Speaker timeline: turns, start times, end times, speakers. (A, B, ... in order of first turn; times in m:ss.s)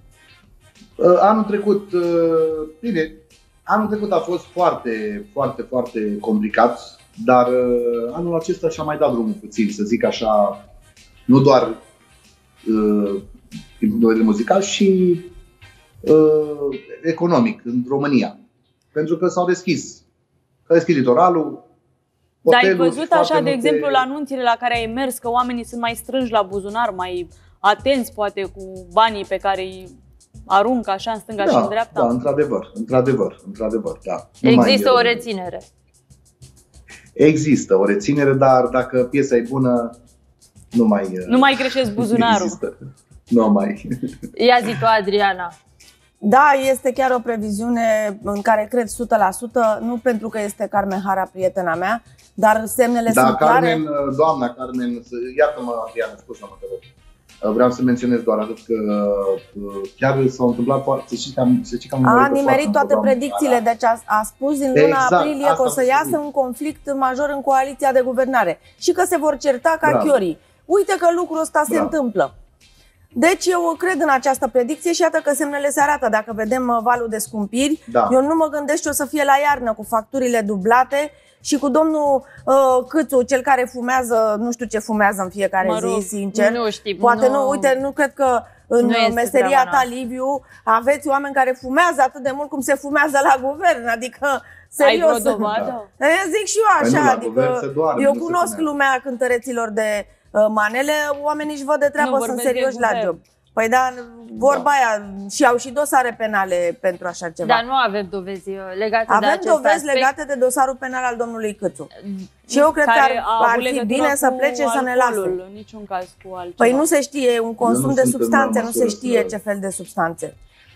0:01.0-0:10.6 A
0:11.3-0:11.8 A
0:12.6-0:13.2 A
0:13.8-0:15.3 A
0:16.0-0:18.4 A
0:18.9-0:20.0 A
0:20.7-0:21.6 A
0:22.4-0:24.0 A
0:22.5-0:29.9 B
0:30.5-0:32.1 B
0:31.4-0:35.2 A
0:34.4-0:35.6 C
0:37.2-0:39.9 A
0:40.7-0:42.7 A
0:41.3-0:42.6 B
0:43.3-0:43.8 A
0:44.4-0:45.5 C
0:46.2-0:53.8 D
0:53.1-0:56.8 A
0:57.4-1:03.6 A
1:02.0-1:12.3 D
1:04.7-1:06.2 A
1:09.8-1:10.2 A
1:11.7-1:11.9 A
1:13.1-1:47.6 D
1:17.9-1:18.2 A
1:25.6-1:26.1 B
1:26.2-1:27.7 C
1:28.8-1:29.9 C
1:34.8-1:35.9 B
1:36.8-1:38.7 A
1:42.0-1:43.1 B
1:44.4-1:44.7 A
1:47.4-1:50.1 C
1:49.1-1:51.9 D
1:52.0-1:52.2 C
1:52.5-1:56.8 B
1:52.5-1:55.4 D
1:56.6-2:00.3 D
1:57.6-1:59.4 A